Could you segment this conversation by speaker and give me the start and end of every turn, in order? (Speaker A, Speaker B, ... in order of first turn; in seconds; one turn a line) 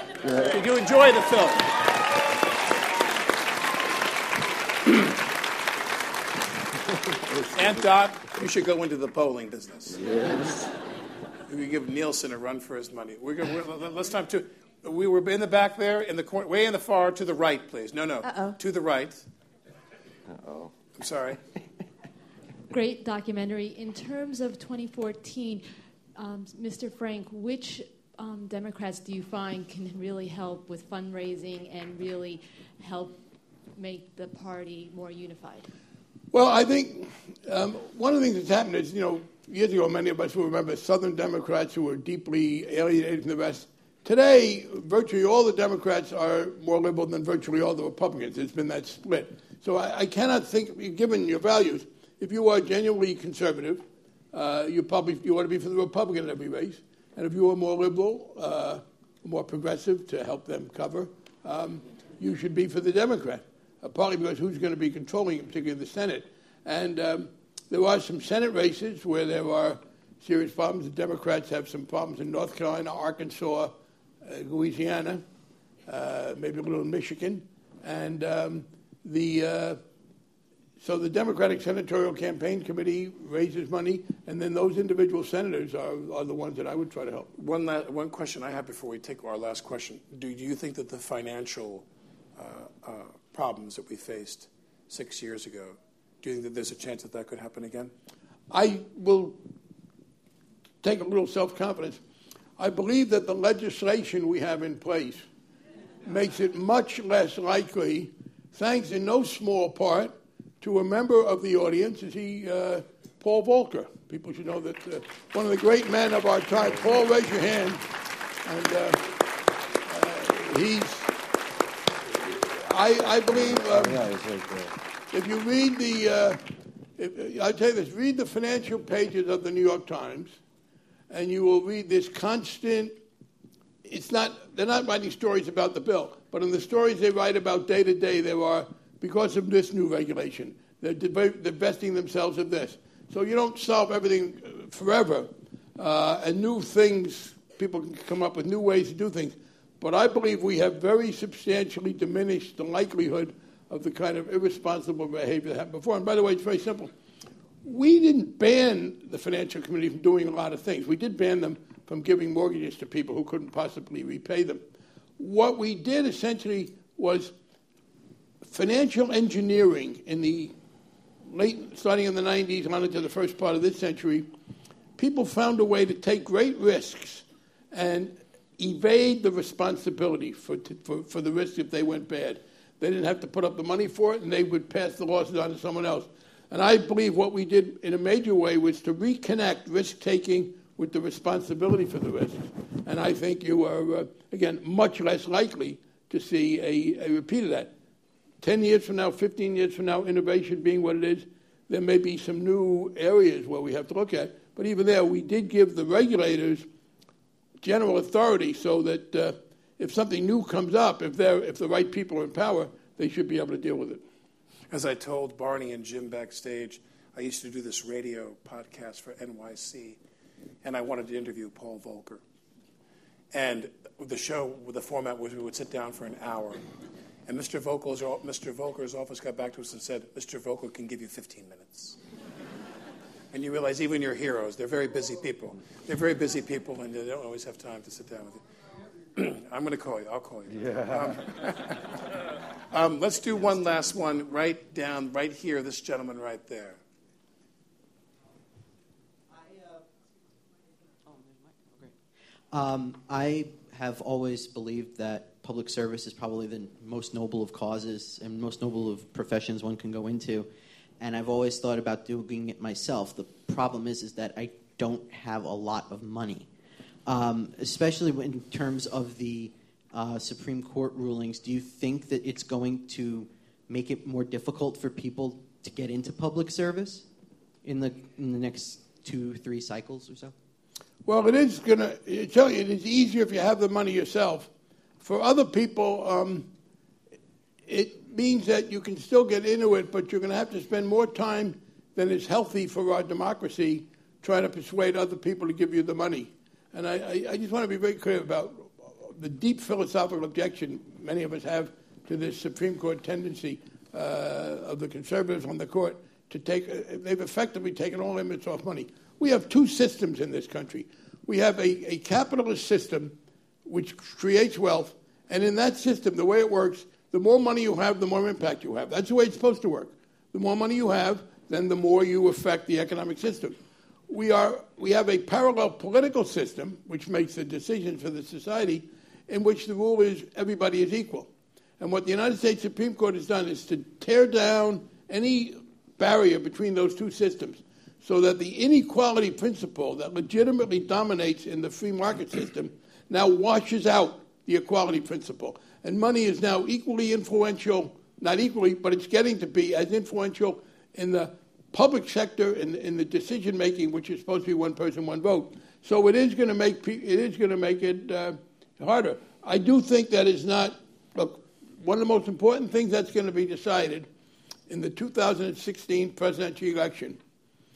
Speaker A: 0.2-0.6
Speaker B: 0.4-1.7
Speaker B: 7.5-10.0
Speaker A: 9.9-10.7
Speaker B: 11.5-19.3
Speaker A: 20.3-20.7
Speaker B: 20.9-21.4
Speaker C: 22.7-33.2
Speaker C: 33.8-35.7
Speaker D: 36.3-75.2
Speaker D: 75.8-79.8
Speaker D: 80.8-87.3
Speaker B: 87.3-97.9
Speaker D: 98.5-99.4
Speaker D: 100.8-102.0
Speaker D: 102.6-105.2
Speaker D: 106.0-117.8
Speaker D: 118.4-119.1
Speaker D: 119.8-121.1
Speaker D: 122.4-124.0
Speaker A: 123.3-124.8
Speaker D: 125.1-126.4
Speaker D: 127.0-130.4
Speaker D: 131.1-132.9
Speaker D: 133.8-156.9
Speaker D: 157.6-164.6
Speaker D: 165.2-167.3
Speaker D: 168.4-170.5
Speaker D: 171.3-174.3
Speaker D: 175.0-197.7
Speaker D: 198.4-206.7
Speaker D: 207.6-214.0
Speaker B: 214.7-220.0
Speaker B: 220.6-222.2
Speaker B: 223.3-226.6
Speaker B: 227.3-232.0
Speaker B: 233.3-238.4
Speaker B: 239.1-241.9
Speaker A: 240.5-241.2
Speaker B: 242.7-246.8
Speaker E: 252.5-260.5
Speaker E: 261.0-266.5
Speaker E: 267.1-277.1
Speaker E: 277.6-280.3
Speaker D: 281.1-284.5
Speaker D: 285.0-286.5
Speaker D: 287.7-323.6
Speaker D: 324.1-364.1
Speaker D: 364.7-367.2